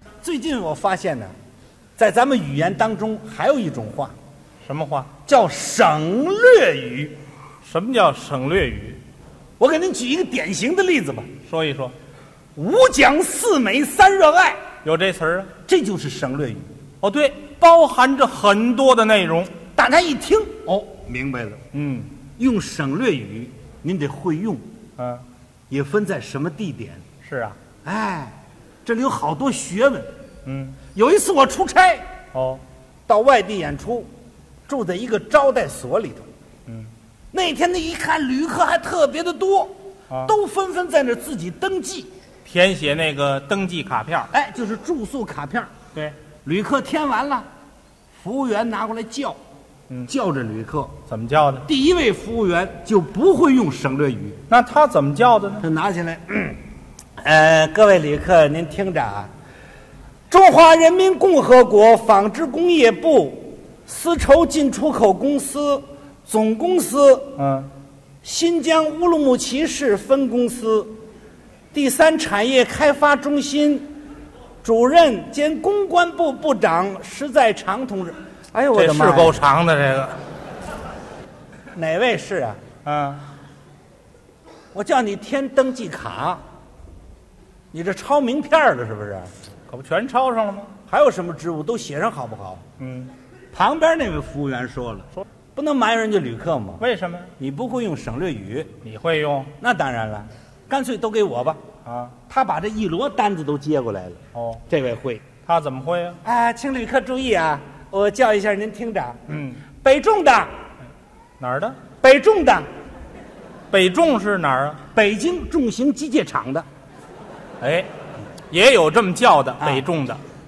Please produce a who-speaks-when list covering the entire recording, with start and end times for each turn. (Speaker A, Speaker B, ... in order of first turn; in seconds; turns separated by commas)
Speaker A: 0.2-1.3, Speaker A: 2.0-4.2, Speaker B: 4.6-5.1, Speaker A: 5.3-7.2, Speaker B: 7.6-9.0, Speaker A: 9.6-11.3, Speaker B: 11.5-11.9, Speaker A: 12.6-14.6, Speaker B: 14.8-15.5, Speaker A: 15.7-16.7, Speaker B: 17.0-19.6, Speaker A: 19.7-21.6, Speaker B: 21.7-22.2, Speaker A: 22.4-24.6, Speaker B: 25.0-25.3, Speaker A: 25.7-27.0, Speaker B: 27.2-27.6, Speaker A: 27.8-30.1, Speaker B: 30.5-30.8, Speaker A: 30.9-32.1, Speaker B: 32.3-32.6, Speaker A: 33.1-34.1, Speaker A: 34.7-36.3, Speaker A: 37.3-42.1, Speaker B: 42.5-44.3, Speaker A: 44.3-45.7, Speaker A: 46.4-47.5, Speaker A: 48.2-49.4, Speaker A: 50.1-50.9, Speaker B: 51.1-51.7, Speaker A: 51.6-54.4, Speaker B: 54.5-55.7, Speaker A: 55.6-56.6, Speaker A: 57.2-59.3, Speaker A: 60.3-67.4, Speaker B: 67.4-67.7, Speaker A: 68.2-71.0, Speaker A: 71.7-73.9, Speaker A: 74.6-79.4, Speaker B: 78.7-80.2, Speaker A: 81.7-82.6, Speaker B: 82.8-83.3, Speaker A: 84.7-86.4, Speaker A: 87.7-89.3, Speaker B: 89.7-90.8, Speaker A: 90.9-92.6, Speaker B: 92.8-93.1, Speaker A: 93.5-98.7, Speaker B: 96.8-97.4, Speaker B: 98.8-99.5, Speaker A: 99.6-101.6, Speaker B: 101.8-102.2, Speaker A: 102.3-105.2, Speaker B: 104.3-104.6, Speaker B: 105.5-106.2, Speaker A: 106.2-109.2, Speaker B: 109.3-109.6, Speaker A: 109.8-110.5, Speaker B: 111.4-111.8, Speaker A: 112.0-112.7, Speaker B: 113.7-114.8, Speaker A: 114.9-116.7, Speaker B: 117.6-117.9, Speaker B: 118.5-120.2